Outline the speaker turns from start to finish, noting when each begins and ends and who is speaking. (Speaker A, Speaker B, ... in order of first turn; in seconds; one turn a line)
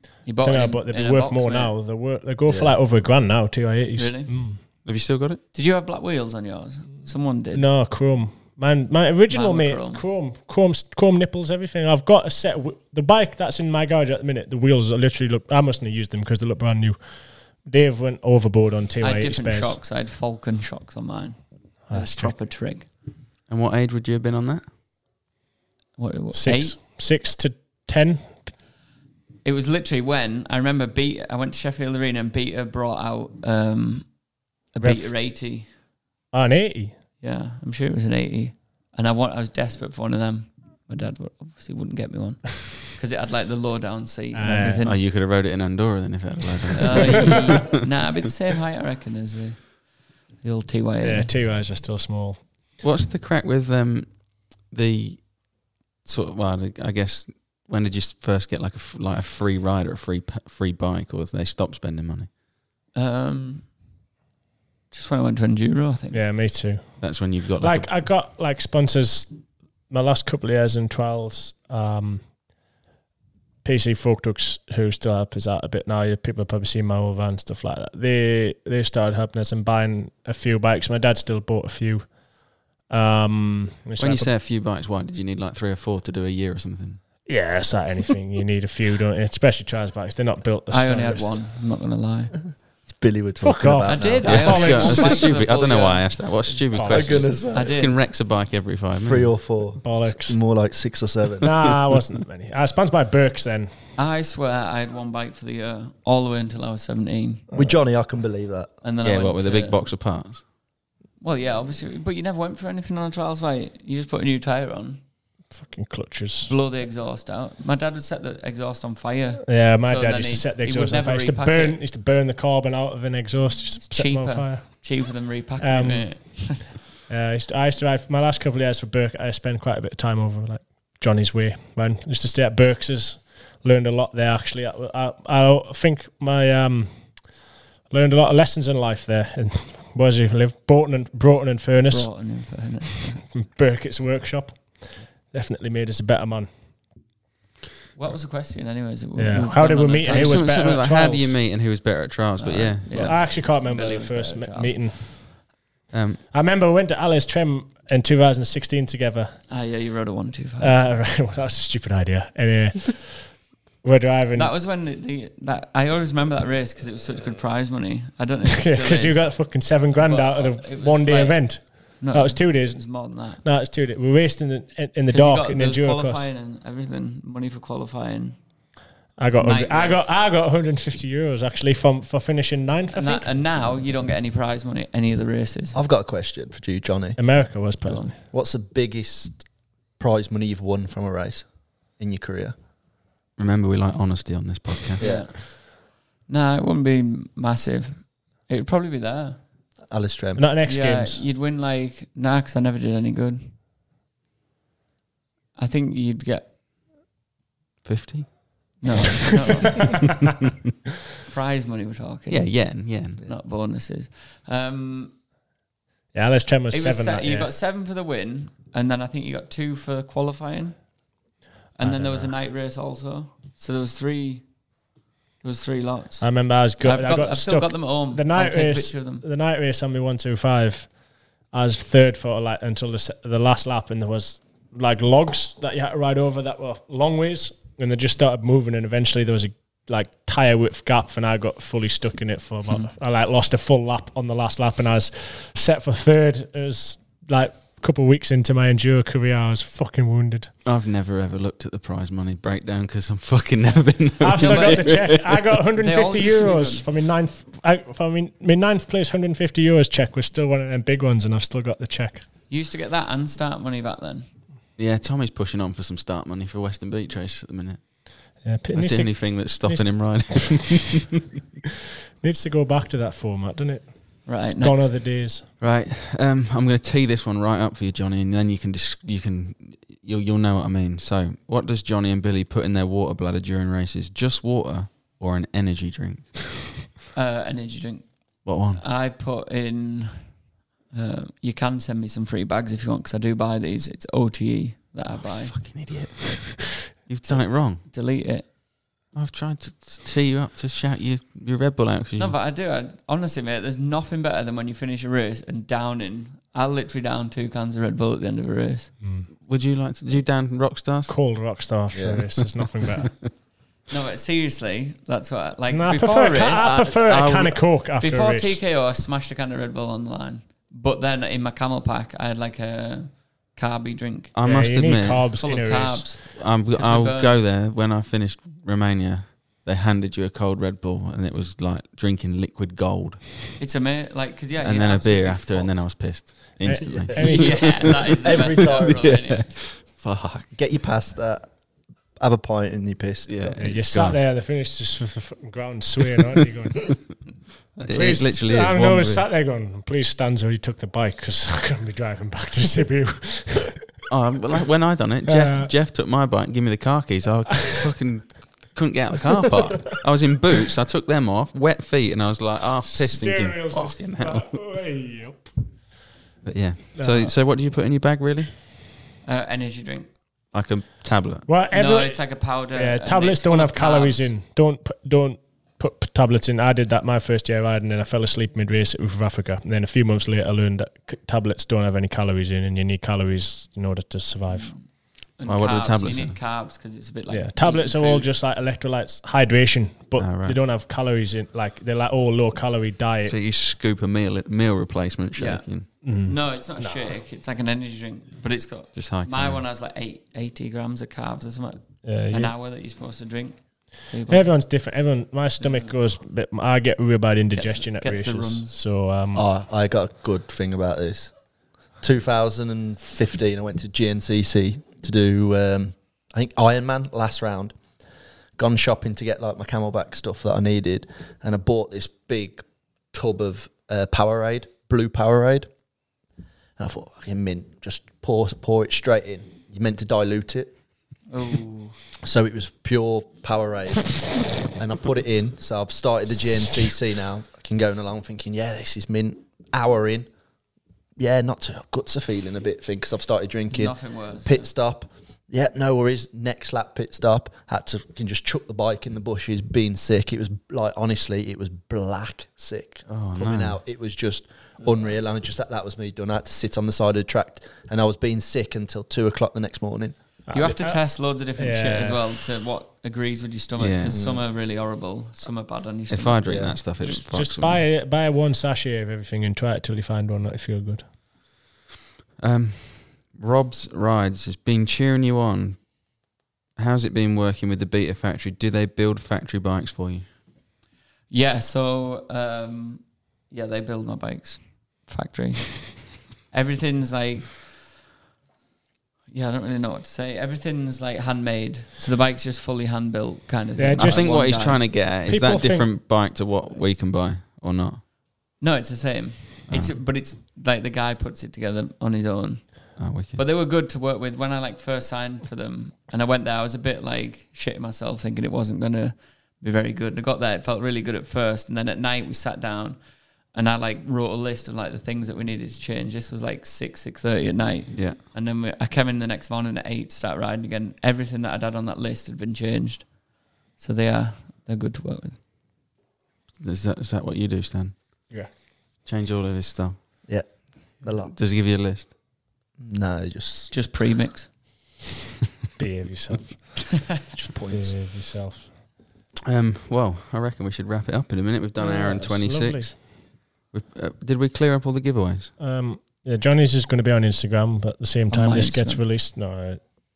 Speaker A: 0.2-1.7
Speaker B: 0.4-4.6
Speaker C: 2.5-2.8
Speaker A: 4.0-4.3
Speaker D: 4.8-5.4
Speaker A: 5.5-7.6
Speaker B: 7.5-17.0
Speaker A: 9.3-10.0
Speaker B: 17.6-19.8
Speaker A: 19.0-22.9
Speaker B: 21.9-22.3
Speaker D: 23.5-24.6
Speaker A: 26.0-26.8
Speaker B: 26.3-28.4
Speaker A: 29.4-34.1
Speaker A: 34.7-35.7
Speaker B: 34.8-35.1
Speaker B: 36.3-37.0
Speaker A: 37.2-45.0
Speaker B: 44.4-44.8
Speaker D: 44.8-47.8
Speaker A: 46.8-49.8
Speaker A: 50.4-51.3
Speaker B: 51.0-52.4
Speaker D: 52.8-54.1
Speaker D: 54.6-55.5
Speaker D: 56.0-62.3
Speaker A: 63.0-63.7
Speaker A: 64.9-66.2
Speaker B: 66.1-69.3
Speaker D: 67.0-67.9
Speaker B: 69.9-72.3
Speaker B: 73.6-82.2
Speaker B: 82.9-84.3
Speaker D: 84.0-87.0
Speaker B: 87.3-91.4
Speaker A: 90.7-92.3
Speaker C: 92.9-94.8
Speaker B: 93.4-95.3
Speaker A: 93.8-96.1
Speaker D: 94.3-99.3
Speaker B: 96.7-97.4
Speaker C: 96.9-97.8
Speaker A: 97.5-98.0
Speaker C: 98.9-101.5
Speaker B: 99.8-100.4
Speaker B: 101.4-103.7
Speaker A: 104.0-107.4
Speaker B: 107.5-107.8
Speaker C: 107.5-108.7
Speaker A: 108.8-109.8
Speaker D: 109.0-110.4
Speaker A: 111.2-115.0
Speaker B: 115.5-116.5
Speaker A: 116.4-121.8
Speaker B: 119.5-125.0
Speaker A: 123.9-126.7
Speaker B: 125.6-137.0
Speaker B: 137.9-142.1
Speaker A: 141.9-143.2
Speaker B: 143.3-146.5
Speaker A: 148.0-150.5
Speaker B: 149.2-151.4
Speaker D: 150.1-153.3
Speaker A: 152.4-154.8
Speaker B: 152.9-155.4
Speaker D: 155.9-156.2
Speaker B: 156.3-159.4
Speaker A: 159.5-160.8
Speaker B: 160.6-164.5
Speaker A: 164.3-173.4
Speaker B: 168.6-176.3
Speaker A: 175.1-178.4
Speaker B: 179.2-183.8
Speaker A: 179.4-180.1
Speaker A: 182.9-185.8
Speaker C: 185.7-187.2
Speaker B: 187.2-188.2
Speaker A: 187.8-188.1
Speaker C: 188.3-189.5
Speaker C: 190.0-192.6
Speaker D: 193.4-195.1
Speaker C: 195.0-195.3
Speaker A: 195.0-195.7
Speaker A: 196.3-199.4
Speaker C: 199.9-200.5
Speaker B: 200.4-201.2
Speaker A: 200.7-203.6
Speaker A: 205.6-206.5
Speaker D: 207.8-208.8
Speaker A: 208.8-210.0
Speaker A: 211.3-215.2
Speaker D: 212.3-213.2
Speaker B: 216.1-217.5
Speaker A: 216.7-220.8
Speaker A: 221.8-224.4
Speaker A: 225.4-229.2
Speaker B: 226.2-230.9
Speaker B: 231.5-250.5
Speaker D: 250.7-255.4
Speaker B: 254.2-262.3
Speaker A: 254.4-254.9
Speaker A: 255.8-256.9
Speaker A: 262.5-264.3
Speaker D: 264.8-268.0
Speaker B: 268.4-270.6
Speaker D: 268.7-271.0
Speaker B: 272.2-275.4
Speaker A: 274.3-274.9
Speaker D: 275.6-286.4
Speaker A: 287.1-290.4
Speaker D: 288.4-288.8
Speaker A: 290.9-295.6
Speaker D: 295.2-297.8
Speaker A: 297.3-298.5
Speaker D: 299.1-302.3
Speaker A: 302.2-308.9
Speaker B: 309.0-309.3
Speaker D: 309.4-311.1
Speaker B: 311.1-313.3
Speaker C: 311.9-312.4
Speaker A: 313.9-317.3
Speaker B: 315.7-318.6
Speaker D: 316.6-317.6
Speaker A: 318.0-324.4
Speaker D: 324.4-325.3
Speaker B: 324.4-326.1
Speaker A: 325.4-327.3
Speaker D: 326.3-333.4
Speaker A: 333.6-335.7
Speaker D: 334.6-340.5
Speaker B: 336.6-337.9
Speaker C: 336.8-339.2
Speaker A: 337.2-339.6
Speaker C: 340.5-341.5
Speaker C: 342.2-343.6
Speaker D: 343.3-344.2
Speaker B: 343.6-347.2
Speaker D: 347.8-349.2
Speaker B: 347.9-353.9
Speaker D: 354.1-364.6
Speaker B: 355.3-355.7
Speaker B: 362.9-365.5
Speaker D: 366.4-368.7
Speaker B: 367.0-367.3
Speaker A: 369.2-370.1
Speaker D: 370.5-371.5
Speaker B: 371.5-384.7
Speaker A: 371.7-374.3
Speaker A: 384.5-384.9
Speaker A: 385.4-388.3
Speaker D: 385.4-386.4
Speaker B: 387.3-393.4
Speaker D: 390.2-390.6
Speaker D: 393.3-395.9
Speaker A: 395.4-404.5
Speaker B: 396.0-397.1
Speaker D: 398.9-399.6
Speaker B: 402.1-402.5
Speaker B: 404.3-409.4
Speaker A: 405.6-405.9
Speaker A: 407.5-408.8
Speaker C: 409.3-411.3
Speaker C: 412.0-417.8
Speaker C: 418.6-425.7
Speaker C: 426.8-430.7
Speaker A: 431.3-432.0
Speaker C: 432.2-440.3
Speaker C: 441.2-460.2
Speaker A: 443.7-444.7
Speaker D: 453.1-453.8
Speaker B: 460.5-461.0
Speaker A: 460.5-466.8
Speaker B: 461.6-462.3
Speaker D: 463.8-464.2
Speaker C: 464.1-464.4
Speaker D: 466.1-467.8
Speaker C: 466.5-466.8
Speaker B: 467.0-471.1
Speaker D: 472.4-475.9
Speaker D: 476.8-480.3
Speaker A: 481.3-487.8
Speaker A: 489.3-494.8
Speaker B: 493.8-495.9
Speaker D: 494.0-498.0
Speaker A: 498.6-513.0
Speaker D: 499.7-499.9
Speaker D: 503.0-503.4
Speaker A: 513.5-523.1
Speaker A: 523.8-525.4
Speaker D: 526.6-528.3
Speaker D: 529.0-530.0
Speaker C: 530.2-531.3
Speaker D: 531.3-532.1
Speaker C: 532.8-533.7
Speaker A: 533.7-534.5
Speaker B: 535.8-536.8
Speaker C: 537.1-538.0
Speaker B: 537.7-538.7
Speaker D: 539.5-543.2
Speaker B: 541.8-543.0
Speaker D: 543.7-545.5
Speaker B: 545.6-549.9
Speaker A: 548.3-549.0